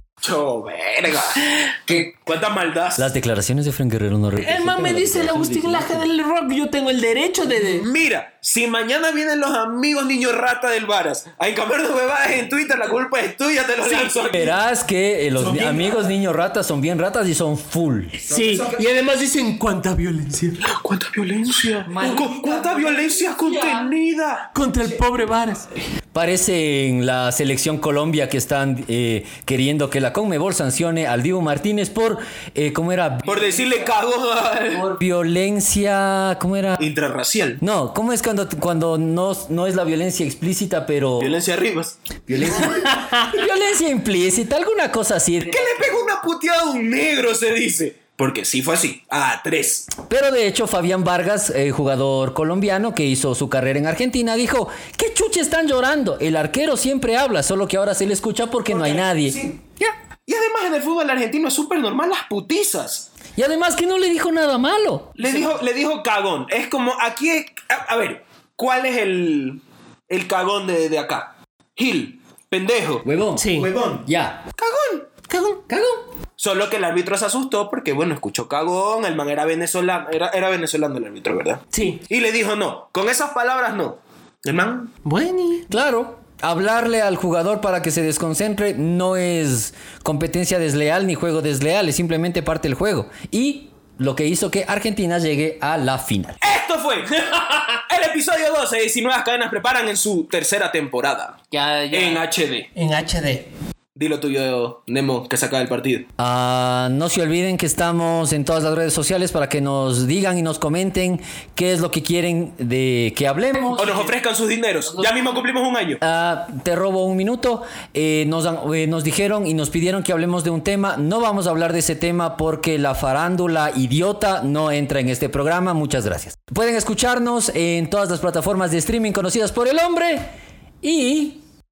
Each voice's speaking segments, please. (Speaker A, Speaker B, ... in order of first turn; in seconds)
Speaker A: 0.2-3.1, 7.7-14.5, 15.3-16.1, 18.4-18.8, 20.6-24.5, 33.2-34.9, 36.8-37.6, 41.2-42.0, 45.5-49.9, 58.7-63.1, 65.2-73.0, 73.6-74.0, 74.6-75.1, 76.4-84.9, 96.4-102.7, 104.0-106.0, 113.7-116.0
Speaker B: 3.0-6.1, 14.3-18.3, 21.8-23.9, 26.1-33.9, 34.7-36.8, 37.6-41.4, 42.3-45.9, 50.0-59.4, 63.4-65.2, 73.0-74.4, 75.7-76.0, 85.7-96.4, 101.5-102.2, 106.2-114.1, 116.0-130.3, 130.8-131.4
Speaker C: 4.4-7.9, 13.8-14.5, 18.3-20.7, 24.5-25.7, 42.6-43.3, 65.2-65.5, 73.4-73.7, 75.3-75.6, 81.7-82.0, 85.0-85.7, 102.7-103.5